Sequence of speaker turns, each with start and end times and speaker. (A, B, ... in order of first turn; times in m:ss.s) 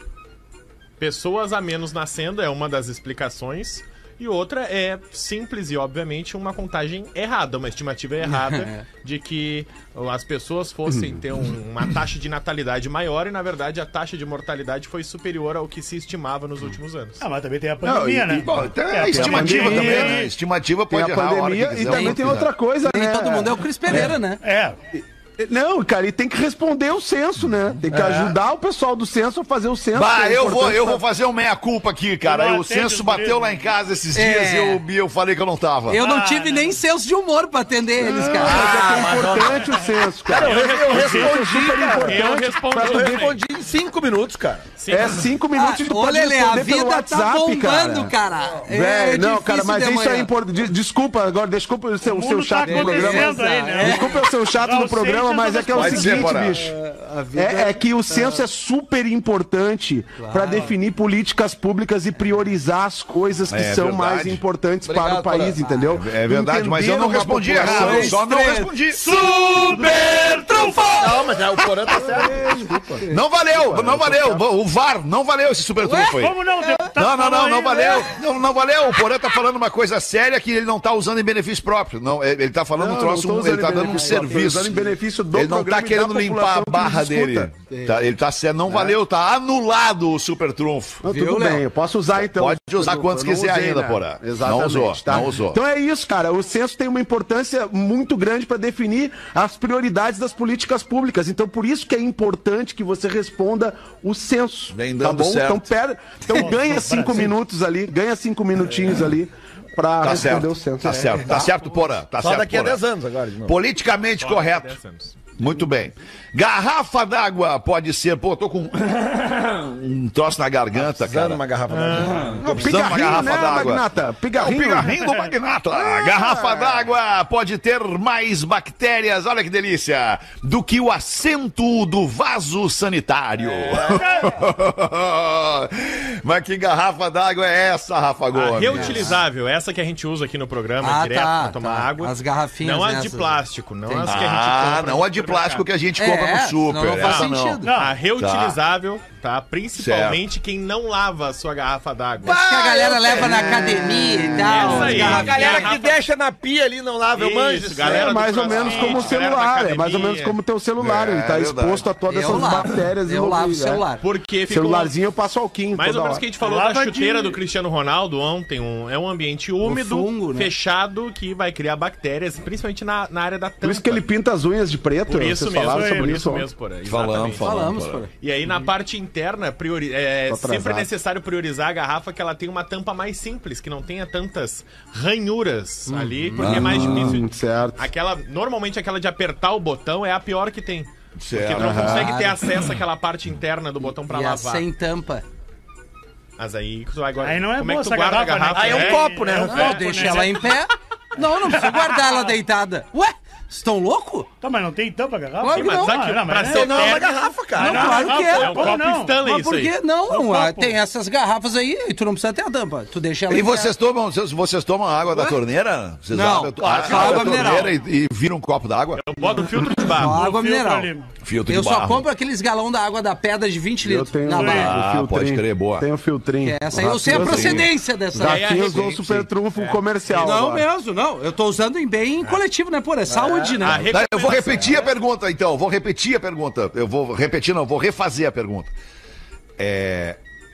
0:01.0-0:17.2 A
0:08.3-0:08.8 B
0:10.9-0:11.2 C
0:17.2-0:20.3 D
0:17.8-0:20.2 C
0:18.4-0:22.5 E
0:20.9-0:24.1 C
0:21.9-0:24.4 B
0:24.4-0:24.8 D
0:25.0-0:31.0 C
0:27.9-0:28.4 F
0:29.9-0:36.0 E
0:32.2-0:33.6 D
0:34.1-0:34.8 B
0:35.9-0:39.1 B
0:36.0-0:36.8 D
0:38.0-0:43.3 C
0:38.4-0:44.6 F
0:40.4-0:41.4 A
0:42.0-0:43.4 A
0:44.8-0:45.3 A
0:44.9-0:48.1 C
0:45.5-0:50.3 B
0:48.7-0:56.8 C
0:52.0-0:56.4 D
0:52.6-0:54.2 B
0:55.7-0:56.6 E
0:56.8-0:58.4 B
0:57.3-1:08.2 C
1:00.2-1:00.7 B
1:03.5-1:04.4 E
1:04.8-1:05.6 F
1:05.6-1:05.9 B
1:05.9-1:11.2 E
1:07.6-1:08.8 B
1:09.2-1:11.2 D
1:11.0-1:12.7 F
1:12.0-1:14.4 C
1:13.1-1:16.4 E
1:15.8-1:16.9 B
1:15.9-1:18.1 D
1:17.0-1:31.0 E
1:22.8-1:27.5 C
1:23.8-1:24.4 B
1:28.7-1:29.0 C
1:31.0-1:51.4 C
1:31.1-1:31.6 B
1:32.2-1:35.6 E
1:44.7-1:45.7 E
1:46.3-1:47.3 D
1:50.0-1:52.8 E
1:52.2-1:53.6 F
1:53.5-1:54.8 E
1:54.2-1:55.2 A
1:55.4-2:01.4 E
2:00.8-2:02.7 F
2:01.7-2:03.6 A
2:02.4-2:05.0 C
2:02.4-2:19.2 E
2:05.9-2:06.8 C
2:13.9-2:14.4 D
2:18.3-2:25.7 A
2:18.6-2:19.2 B
2:20.8-2:24.2 B
2:24.0-2:27.7 E
2:26.0-2:27.7 B
2:27.0-2:32.4 A
2:27.6-2:28.0 D
2:28.2-2:28.6 E
2:29.8-2:30.2 E
2:32.2-2:38.2 F
2:32.2-2:35.7 B
2:33.2-2:34.8 C
2:34.4-2:36.0 A
2:37.2-2:40.4 A
2:37.8-2:43.9 C
2:38.5-2:39.1 E
2:40.8-2:42.0 E
2:42.1-2:44.0 B
2:44.0-2:45.0 A
2:44.5-2:46.2 C
2:45.7-2:54.0 A
2:46.4-2:47.4 D
2:49.6-2:50.5 B
2:53.6-2:56.5 C
2:55.1-2:57.4 A
2:55.7-2:56.2 D
2:56.9-2:58.0 E
2:57.4-2:58.1 B
2:58.2-3:14.6 A
3:00.3-3:00.9 C
3:05.9-3:06.8 B
3:06.4-3:07.2 E
3:06.4-3:07.8 C
3:11.2-3:12.1 E
3:11.6-3:12.0 C
3:11.9-3:12.4 B
3:13.9-3:15.2 B
3:16.4-3:20.4 A
3:17.2-3:20.6 D
3:18.6-3:19.9 F
3:19.5-3:24.3 B
3:21.4-3:22.3 D
3:24.4-3:27.0 D
3:25.4-3:26.1 B
3:25.5-3:27.1 A
3:26.5-3:28.1 F
3:27.6-3:29.2 D
3:27.6-3:33.7 B
3:27.7-3:29.8 A
3:30.1-3:30.7 D
3:33.3-3:39.0 E
3:36.1-3:37.7 B
3:36.6-3:37.7 F
3:39.0-3:40.2 A
3:39.8-3:40.9 B
3:40.0-3:41.1 D
3:41.2-3:42.1 E
3:41.5-3:44.8 B
3:43.8-3:50.7 C
3:44.3-3:44.7 D
3:44.5-3:45.9 E
3:46.4-3:48.8 B
3:47.1-3:47.7 E
3:48.2-3:50.1 A
3:50.1-3:54.0 B
3:53.1-3:53.6 F
3:53.6-3:54.9 A
3:53.7-3:58.7 E
3:59.6-4:00.2 E